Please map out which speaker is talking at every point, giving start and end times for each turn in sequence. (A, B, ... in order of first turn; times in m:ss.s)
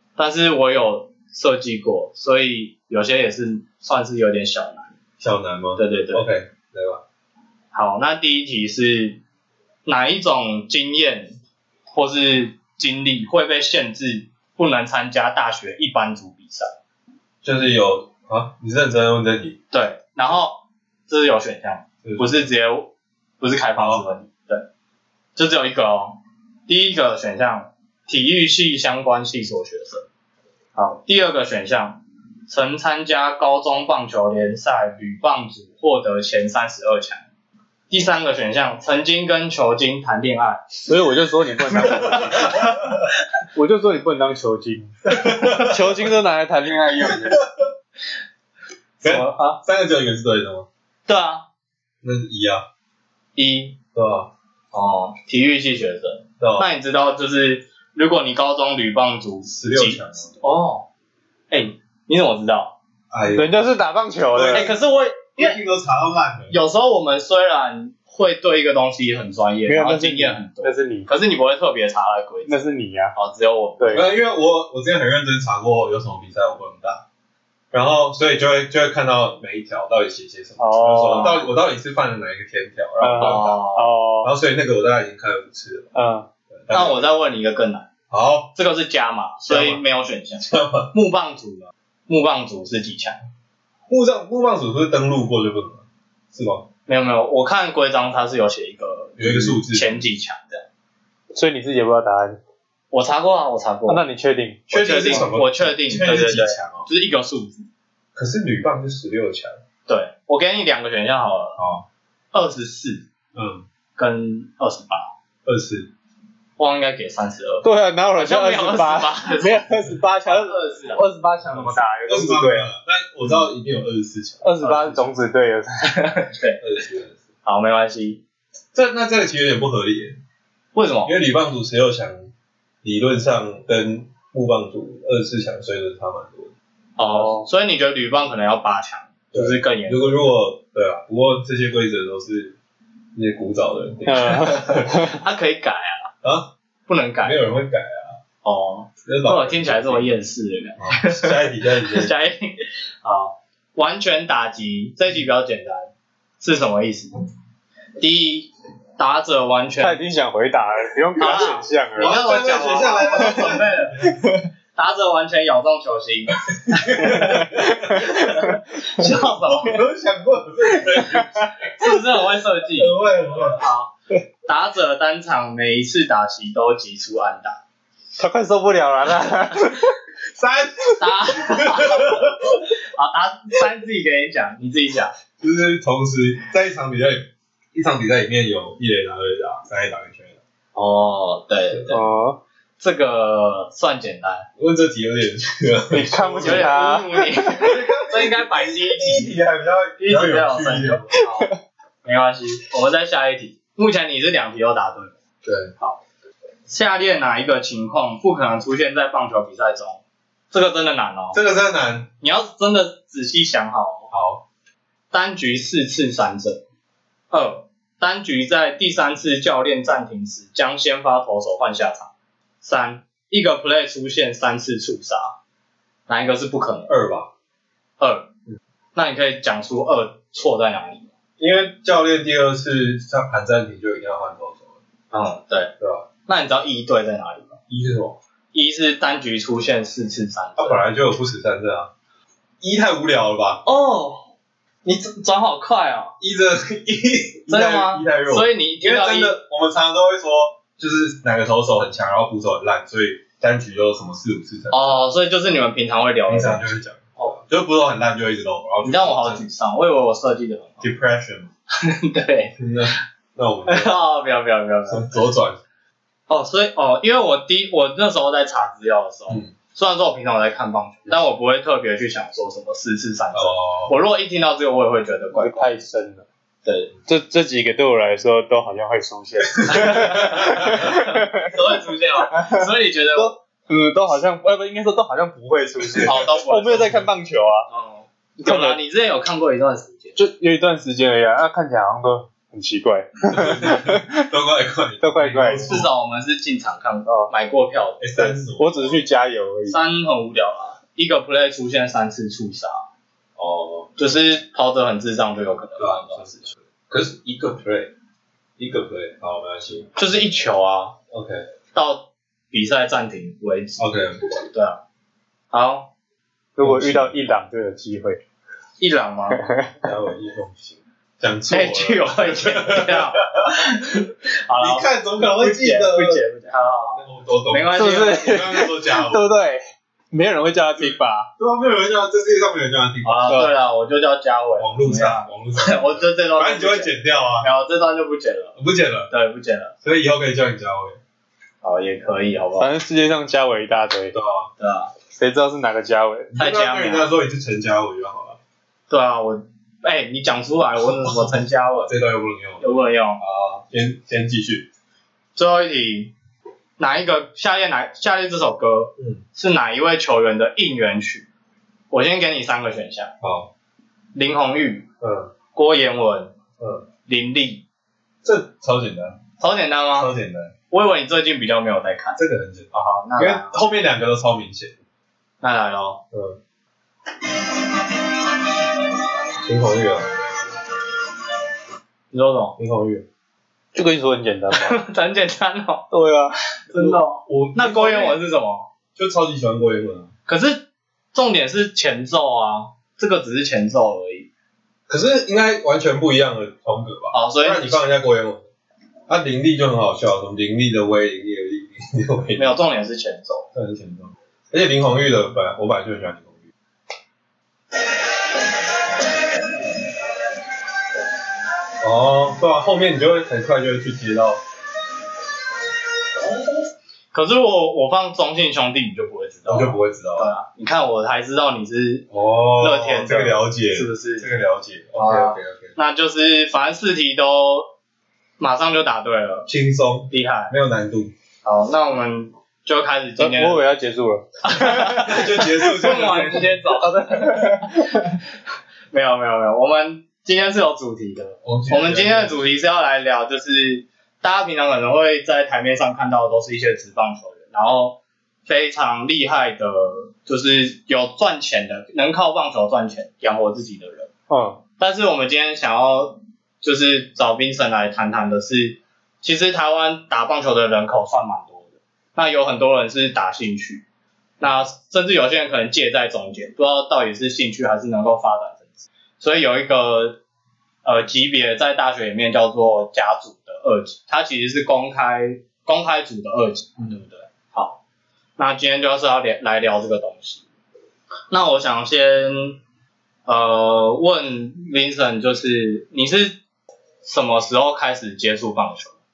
0:00.2-0:04.9 A
0:05.2-0:07.0 B
0:05.8-0:06.3 A
0:07.7-0:09.2 A
0:09.9-0:11.4 A
0:11.9-0:16.7 A
0:17.4-0:19.6 B
0:19.7-0:24.7 A
0:22.0-0:22.5 B
0:23.8-0:24.0 B
0:25.4-0:30.1 A
0:30.8-0:37.2 A
0:37.9-0:40.9 A
0:40.9-0:42.6 C
0:41.8-0:42.6 A
0:42.0-0:42.8 B
0:43.5-0:45.0 C
0:45.1-0:46.1 B
0:45.4-0:45.7 A
0:45.6-0:47.4 C
0:49.0-0:50.7 B
0:49.0-0:49.6 A
0:51.1-0:51.4 A
0:52.0-0:52.6 B
0:53.4-0:53.8 A
0:54.0-0:54.3 B
0:54.7-1:00.9 A
0:56.4-0:56.7 B
0:59.6-1:00.4 B
1:01.5-1:02.8 A
1:03.1-1:03.6 B
1:03.4-1:04.7 C
1:04.3-1:04.8 B
1:04.4-1:05.6 A
1:05.4-1:06.6 B
1:06.5-1:14.1 A
1:09.7-1:11.1 C
1:12.5-1:13.2 C
1:13.8-1:14.0 C
1:13.9-1:17.0 B
1:17.7-1:23.6 B
1:20.6-1:21.4 C
1:21.0-1:21.5 A
1:23.0-1:24.3 C
1:23.1-1:23.9 A
1:24.2-1:25.9 B
1:25.9-1:26.3 C
1:26.5-1:27.2 B
1:26.7-1:27.9 A
1:28.1-1:28.5 B
1:28.5-1:33.2 A
1:29.5-1:29.8 B
1:30.5-1:30.9 B
1:33.9-1:36.7 B
1:36.9-1:40.6 A
1:39.2-1:40.0 B
1:41.3-1:42.4 C
1:42.9-1:44.0 A
1:43.9-1:45.3 C
1:44.7-1:46.9 B
1:44.7-1:47.7 A
1:48.2-1:49.6 B
1:49.9-1:51.6 A
1:51.6-1:51.8 B
1:52.3-1:53.0 A
1:53.4-1:53.6 B
1:54.0-1:55.1 A
1:55.4-1:55.9 B
1:56.6-1:59.7 A
1:57.6-2:02.7 C
2:00.3-2:01.0 A
2:01.5-2:05.1 B
2:04.4-2:06.1 C
2:05.8-2:06.6 A
2:06.6-2:07.2 B
2:07.4-2:08.2 A
2:08.7-2:10.2 B
2:10.7-2:11.2 A
2:11.0-2:12.3 B
2:12.8-2:16.5 B
2:17.0-2:20.1 A
2:17.2-2:17.4 C
2:19.3-2:22.6 B
2:23.2-2:25.2 B
2:24.1-2:25.2 C
2:24.9-2:26.1 A
2:26.2-2:26.5 B
2:26.9-2:27.4 A
2:27.2-2:28.2 B
2:28.4-2:35.9 A
2:29.1-2:30.1 B
2:30.8-2:32.1 B
2:36.4-2:37.1 A
2:38.0-2:40.0 A
2:39.8-2:42.2 C
2:41.2-2:44.1 A
2:42.0-2:44.2 B
2:44.8-2:49.8 A
2:46.7-2:48.4 B
2:47.1-2:48.5 C
2:49.2-2:53.6 B
2:50.7-2:51.5 C
2:51.6-2:53.9 A
2:54.5-2:57.6 A
2:58.2-3:00.0 C
3:00.3-3:02.3 B
3:01.0-3:05.1 A
3:05.4-3:10.4 B
3:10.8-3:12.1 A
3:11.9-3:12.4 C
3:12.8-3:14.5 A
3:14.6-3:16.9 B
3:15.9-3:17.8 C
3:16.4-3:19.4 A
3:17.6-3:21.2 B
3:20.0-3:25.2 A
3:25.4-3:25.7 B
3:26.7-3:31.4 A
3:31.3-3:32.1 B
3:32.2-3:34.1 A
3:34.1-3:34.4 B
3:35.1-3:36.6 A
3:37.3-3:42.1 A
3:42.6-3:45.4 A
3:46.1-3:46.9 A
3:46.9-3:47.3 B
3:48.0-3:48.3 A
3:49.0-3:51.1 A
3:51.4-3:54.8 B
3:55.1-3:55.7 A
3:55.8-3:56.0 B
3:56.3-3:57.6 A
3:57.7-3:58.2 B
3:58.5-4:00.8 A
4:00.6-4:01.9 B
4:02.6-4:03.6 B
4:03.6-4:04.3 A
4:04.8-4:06.2 A
4:06.2-4:15.0 B
4:07.5-4:09.4 A
4:14.7-4:17.4 A
4:16.3-4:19.5 B
4:18.8-4:20.9 A
4:20.8-4:21.5 B
4:21.8-4:22.6 A
4:22.6-4:23.9 B
4:23.7-4:25.2 A
4:24.9-4:25.6 B
4:26.3-4:35.7 A
4:33.3-4:34.0 B
4:35.4-4:36.2 C
4:36.6-4:36.9 A
4:37.1-4:41.5 C
4:39.7-4:43.4 A
4:42.3-4:47.7 C
4:46.0-4:47.0 A
4:47.7-4:50.2 A
4:48.4-4:48.8 C
4:50.2-4:54.2 C
4:53.3-4:55.9 B
4:55.0-4:55.8 C
4:55.7-4:58.4 A
4:58.0-4:59.1 B
4:58.6-4:59.8 C
4:59.7-5:02.8 A
5:03.4-5:04.0 B
5:04.0-5:06.5 A
5:05.8-5:07.9 B
5:08.6-5:10.0 B
5:10.0-5:11.0 A
5:11.1-5:11.4 B
5:11.7-5:13.9 A
5:13.8-5:14.3 B
5:14.4-5:14.8 A
5:15.5-5:15.9 A
5:16.6-5:18.2 C
5:16.6-5:17.2 B
5:18.8-5:19.4 A
5:19.4-5:19.7 C
5:19.8-5:23.5 B
5:21.5-5:28.4 A
5:24.6-5:26.2 B
5:27.0-5:29.3 B
5:27.8-5:29.6 C
5:30.1-5:31.3 C
5:30.8-5:33.4 B
5:33.0-5:38.6 A
5:34.6-5:37.5 B
5:38.6-5:39.1 B
5:39.1-5:39.7 A
5:39.8-5:41.0 B
5:41.6-5:42.7 A
5:42.6-5:44.2 C
5:44.1-5:44.5 B
5:44.6-5:44.9 A
5:45.2-5:46.3 C
5:46.3-5:48.4 B
5:46.4-5:47.1 A
5:48.9-5:51.9 A
5:51.8-5:52.6 B
5:52.6-5:53.2 A
5:53.2-5:54.7 B
5:55.4-5:56.1 A
5:56.8-6:01.3 A
5:59.0-5:59.2 B
6:01.9-6:03.1 A
6:03.2-6:03.5 B
6:04.1-6:04.9 A
6:05.0-6:05.3 B
6:05.5-6:06.3 A
6:06.6-6:06.8 B
6:07.1-6:07.6 A
6:08.2-6:09.2 B
6:09.4-6:10.1 A
6:10.0-6:10.5 B
6:10.7-6:12.2 A
6:12.2-6:14.8 B
6:12.7-6:13.6 A
6:15.4-6:16.0 A
6:16.1-6:16.4 B
6:19.4-6:20.1 B
6:22.1-6:22.6 A
6:22.6-6:23.1 B
6:23.7-6:24.8 C
6:24.5-6:25.9 A
6:25.9-6:26.4 C
6:26.7-6:28.7 A
6:26.8-6:28.2 B
6:29.0-6:30.1 B
6:30.3-6:34.3 A
6:34.9-6:38.5 B
6:37.1-6:37.9 A
6:39.1-6:42.5 B
6:42.4-6:43.5 A
6:43.5-6:46.5 B
6:51.8-6:54.4 B
6:57.1-7:02.1 A
6:59.5-7:00.3 B
7:02.1-7:05.7 B
7:02.6-7:04.3 A
7:05.0-7:07.7 A
7:08.4-7:09.5 A
7:09.5-7:11.1 B
7:10.1-7:10.5 A
7:11.4-7:13.6 A
7:13.2-7:15.0 C
7:14.4-7:18.2 A
7:15.0-7:16.5 B
7:16.8-7:18.2 C
7:18.9-7:34.1 A
7:21.4-7:22.5 B
7:34.3-7:34.6 C
7:34.8-7:43.8 A
7:44.4-7:50.2 A
7:50.8-7:57.8 A
7:58.4-8:00.4 A
8:01.3-8:02.6 A
8:03.3-8:06.4 A
8:07.0-8:09.0 A